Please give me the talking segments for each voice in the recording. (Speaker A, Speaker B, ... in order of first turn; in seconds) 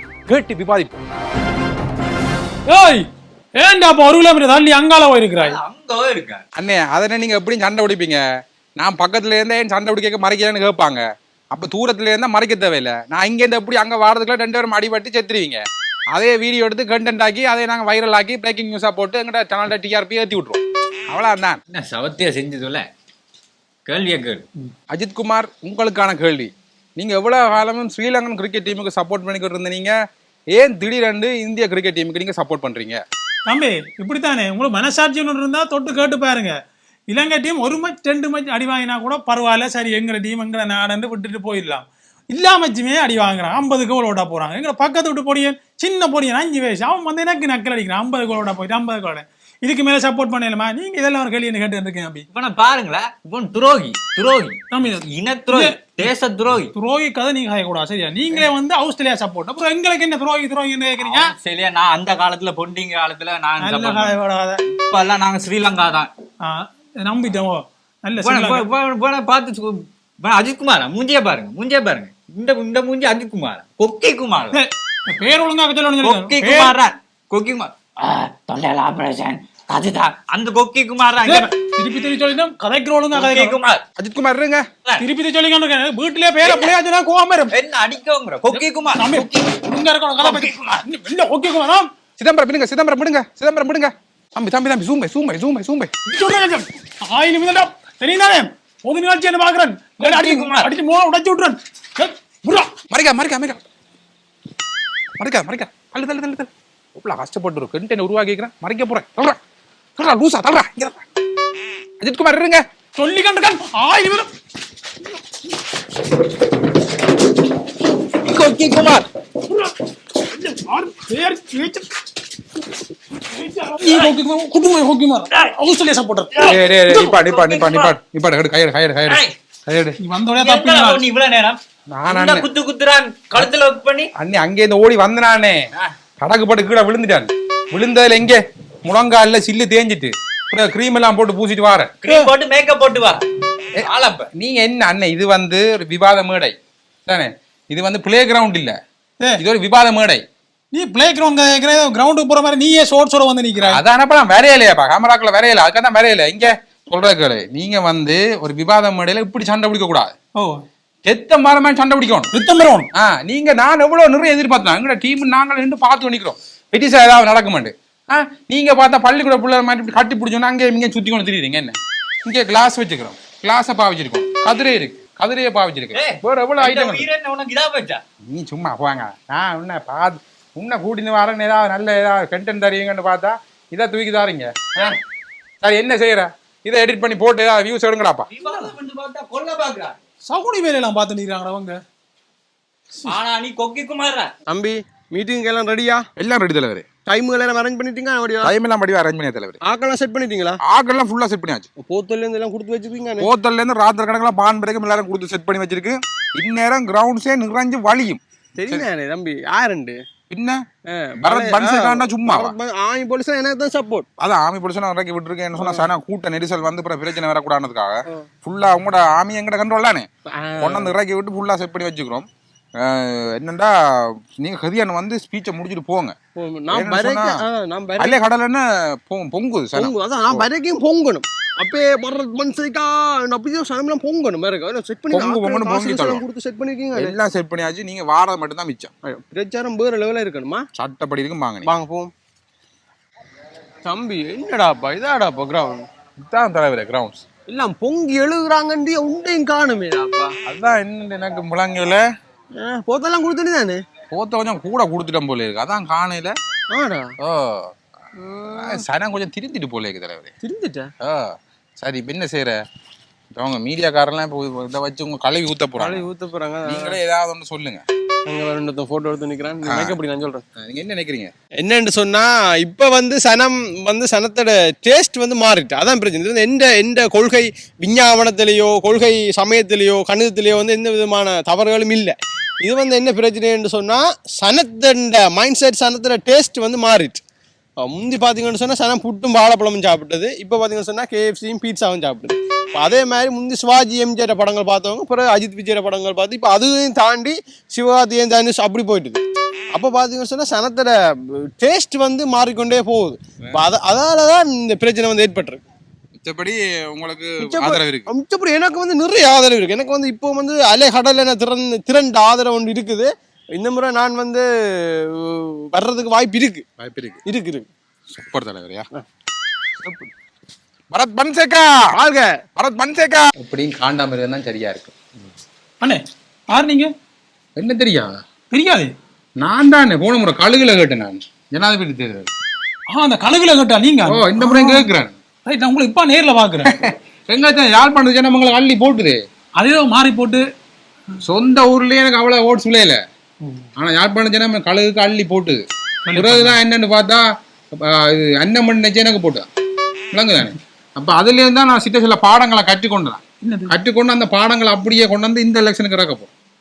Speaker A: 0.3-1.0, 6.5-8.2, 8.8-21.6, 24.9-29.9, 30.5-33.0, 84.0-84.7, 92.2-95.9, 102.9-103.6, 105.2-109.4, 110.0-111.0, 112.0-112.6, 126.4-130.0, 131.9-132.5, 134.2-135.7, 136.2-141.9, 143.8-148.8, 149.4-150.2, 153.6-160.1, 161.0-162.3, 162.9-177.1, 178.3-184.9, 185.6-188.3, 196.2-196.8, 198.4-199.6, 200.6-201.7, 203.2-208.8, 210.3-210.6, 211.2-212.5, 214.2-220.1, 220.6-222.2, 222.8-226.1, 226.7-227.4, 228.0-230.4, 235.1-236.2, 236.9-238.9, 240.7-241.7, 246.2-247.2, 250.4-252.0, 254.1-256.3, 257.2-257.7, 258.5-260.3, 261.0-262.6, 263.3-266.0, 266.6-267.8, 269.6-270.0, 270.6-271.3, 306.1-308.1, 316.8-317.2, 318.1-318.9, 320.9-321.8, 322.6-324.9, 327.6-328.1, 329.4-332.3, 334.1-335.1, 336.6-339.2, 341.2-343.0, 343.8-345.6, 346.1-349.5, 350.1-356.3
Speaker B: 2.7-3.0, 3.6-5.6, 33.5-36.5, 37.1-52.2, 54.7-56.1, 56.7-61.3, 63.6-64.6, 66.4-68.7, 74.5-76.8, 81.2-83.6, 85.0-87.5, 88.5-91.9, 96.1-102.7, 112.9-114.3, 120.2-121.9, 123.2-127.1, 130.0-131.0, 150.7-153.8, 162.3-162.9, 188.5-188.7, 190.3-191.8, 325.8-326.9, 328.5-328.9, 332.9-334.9, 335.4-336.8, 339.6-340.4, 346.0-346.6, 353.4-353.7
Speaker C: 5.3-6.4, 21.7-22.9, 23.8-24.4, 52.3-56.7, 61.0-64.2, 64.7-66.1, 68.2-74.6, 76.0-81.5, 83.1-83.8, 86.4-86.7, 87.5-89.6, 90.2-90.7, 100.0-100.7, 118.1-119.1, 123.8-124.1, 126.4-128.0, 129.1-129.3, 130.3-134.1, 142.0-143.2, 143.8-144.3, 175.9-178.0, 188.3-190.0, 193.0-194.3
Speaker D: 194.5-196.0, 197.1-198.5, 199.6-200.6, 201.8-203.3, 208.6-210.0, 210.9-214.1, 215.6-215.8, 220.3-220.9, 226.3-228.2, 229.8-237.1, 239.0-240.6, 241.6-242.1, 243.8-245.8, 247.5-250.3, 252.6-253.8, 256.7-257.1, 258.2-258.8, 260.4-260.9, 265.8-267.0, 268.3-270.4, 271.6-287.2, 287.8-299.2, 299.7-305.6, 307.4-316.6, 317.2-317.6, 321.9-322.4